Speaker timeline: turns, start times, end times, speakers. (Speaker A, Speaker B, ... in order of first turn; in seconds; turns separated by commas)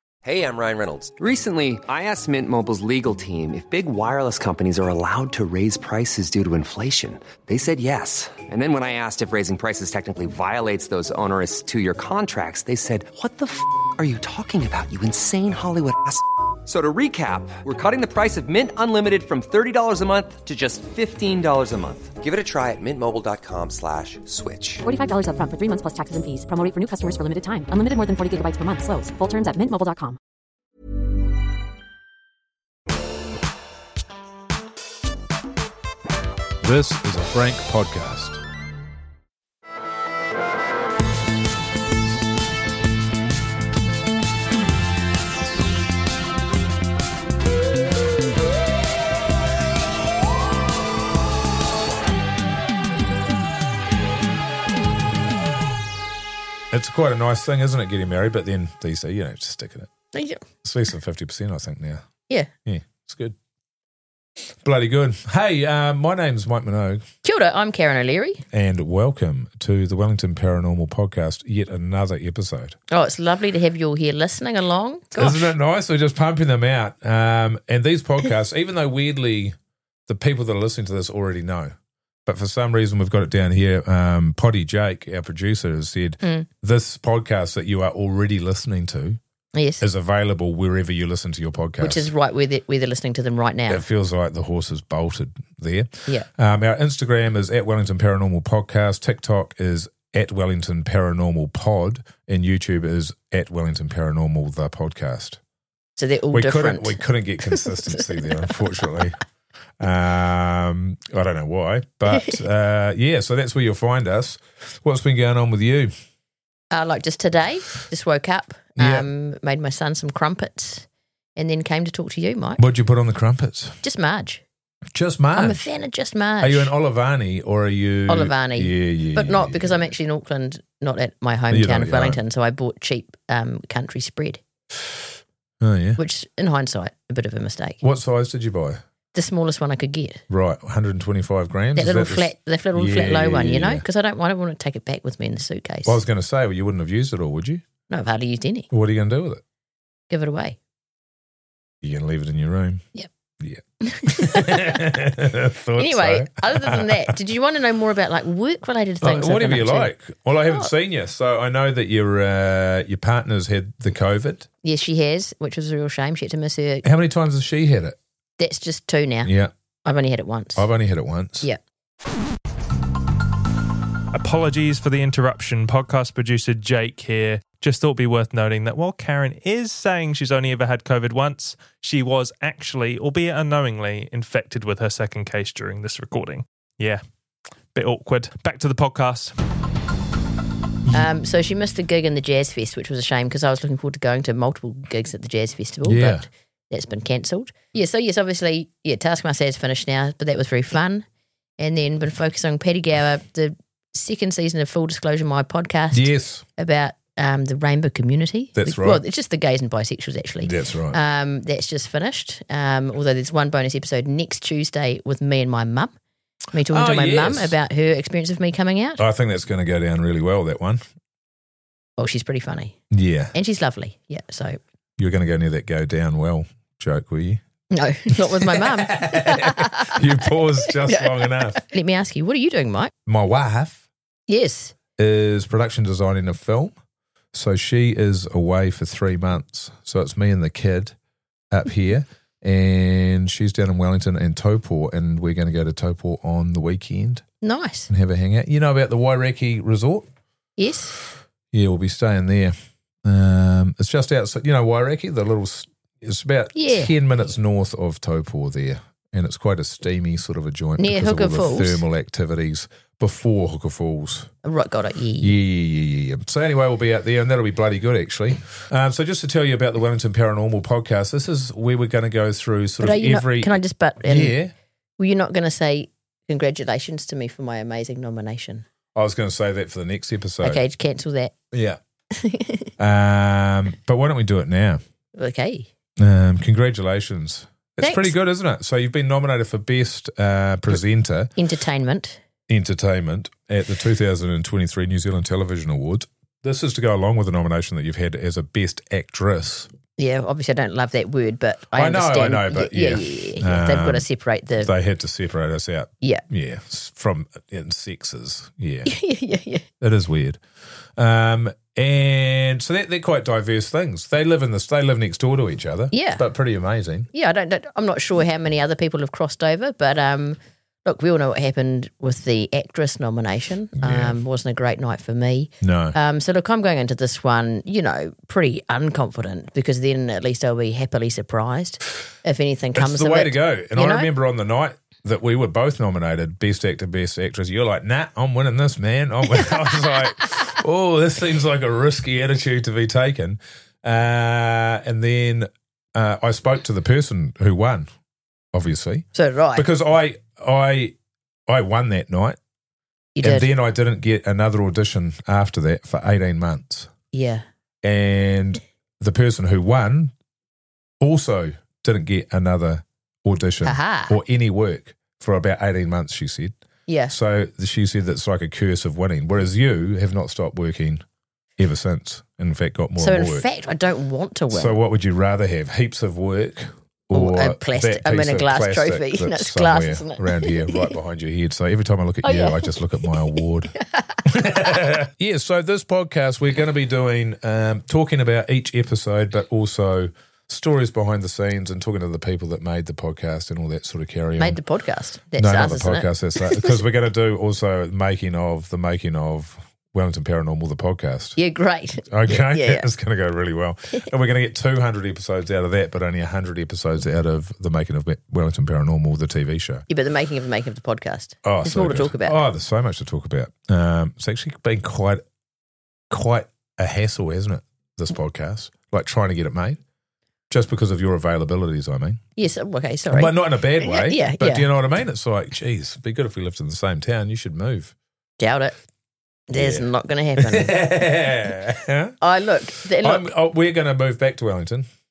Speaker A: 0.2-24.8, Speaker B: 24.8-30.2, Speaker C: 36.6-38.4, Speaker C: 56.7-59.9, Speaker D: 60.1-60.4, Speaker C: 60.6-62.0, Speaker C: 62.6-63.4, Speaker C: 64.6-67.0, Speaker D: 67.2-68.4, Speaker C: 68.5-72.8, Speaker D: 72.9-75.5, Speaker C: 75.1-79.5, Speaker C: 80.1-81.7, Speaker C: 82.2-89.2, Speaker D: 89.5-89.8, Speaker C: 89.8-92.1, Speaker D: 91.8-93.8, Speaker C: 93.7-105.4, Speaker D: 106.0-107.0, Speaker C: 106.3-109.2, Speaker D: 107.5-108.2, Speaker C: 109.8-115.9, Speaker D: 116.7-122.6, Speaker C: 118.8-119.1, Speaker C: 122.6-123.8, Speaker D: 123.8-124.4, Speaker C: 124.9-125.7, Speaker D: 125.3-126.7, Speaker C: 126.4-129.8, Speaker D: 128.1-134.4, Speaker C: 131.5-132.2, Speaker C: 135.6-136.0, Speaker D: 136.0-137.8, Speaker C: 137.8-138.8, Speaker D: 139.1-140.2, Speaker C: 140.3-143.8, Speaker D: 141.7-146.0, Speaker C: 145.8-147.6, Speaker D: 147.9-148.7, Speaker C: 148.7-149.4, Speaker D: 150.1-150.6, Speaker C: 151.8-152.8, Speaker C: 153.4-157.1, Speaker D: 153.8-154.8, Speaker D: 155.8-159.9, Speaker C: 159.0-164.5, Speaker D: 164.6-166.8, Speaker C: 166.8-168.0, Speaker D: 168.4-169.3, Speaker C: 169.2-169.5, Speaker D: 169.8-170.7, Speaker C: 170.6-171.5, Speaker E: 174.1-187.0, Speaker E: 187.7-189.3, Speaker D: 190.9-201.0, Speaker C: 195.8-196.3, Speaker D: 201.6-215.9, Speaker C: 205.9-206.4, Speaker C: 208.5-209.0, Speaker C: 210.4-211.0, Speaker D: 216.5-219.0, Speaker C: 216.7-217.5, Speaker C: 219.0-220.8, Speaker D: 222.0-222.8, Speaker C: 222.9-223.3, Speaker D: 223.3-224.6, Speaker C: 225.0-227.4, Speaker D: 227.7-232.9, Speaker C: 228.1-231.6, Speaker C: 233.1-233.8, Speaker D: 234.3-234.7, Speaker C: 235.0-236.7, Speaker C: 237.3-240.9, Speaker C: 241.5-247.2, Speaker D: 247.4-247.9, Speaker C: 247.9-250.1, Speaker D: 250.6-251.0, Speaker C: 251.5-252.5, Speaker C: 253.0-264.3, Speaker D: 256.5-256.9, Speaker D: 260.8-261.8, Speaker D: 264.4-265.3, Speaker C: 265.2-274.5, Speaker D: 272.8-274.3, Speaker D: 275.0-278.6, Speaker C: 278.9-280.6, Speaker D: 280.4-281.3, Speaker C: 281.5-281.8, Speaker D: 282.1-282.7, Speaker C: 282.8-284.8, Speaker D: 285.1-285.7, Speaker C: 286.0-291.3, Speaker D: 287.8-288.1, Speaker D: 291.4-292.2, Speaker C: 292.5-299.7, Speaker D: 300.0-304.7, Speaker C: 301.7-304.1, Speaker C: 304.6-308.9, Speaker D: 308.9-309.6, Speaker C: 309.8-310.4, Speaker C: 310.9-317.1, Speaker D: 315.9-316.2, Speaker D: 317.1-334.1, Speaker C: 323.8-324.2, Speaker C: 325.6-325.9, Speaker C: 332.7-347.9, Speaker C: 348.5-350.9, Speaker D: 349.1-349.7, Speaker C: 351.5-352.4, Speaker D: 353.1-353.5, Speaker C: 353.2-356.9, Speaker D: 357.1-357.4, Speaker C: 357.8-360.1, Speaker C: 361.0-366.5, Speaker D: 363.6-364.2, Speaker D: 366.9-367.1, Speaker C: 367.1-371.0, Speaker C: 371.6-373.5, Speaker D: 373.0-374.8, Speaker C: 374.5-383.7, Speaker D: 377.1-380.9, Speaker D: 382.2-383.4, Speaker D: 384.0-384.2, Speaker C: 384.2-394.6, Speaker D: 394.4-396.8, Speaker C: 395.4-401.4, Speaker D: 401.4-402.9, Speaker C: 402.0-409.9, Speaker D: 409.9-412.4, Speaker C: 411.4-415.2, Speaker C: 416.1-419.8, Speaker C: 420.5-422.2, Speaker D: 422.4-424.7, Speaker C: 423.1-427.9, Speaker D: 428.4-428.7, Speaker D: 429.5-430.7, Speaker C: 429.5-432.1, Speaker D: 432.2-433.3, Speaker C: 432.8-434.9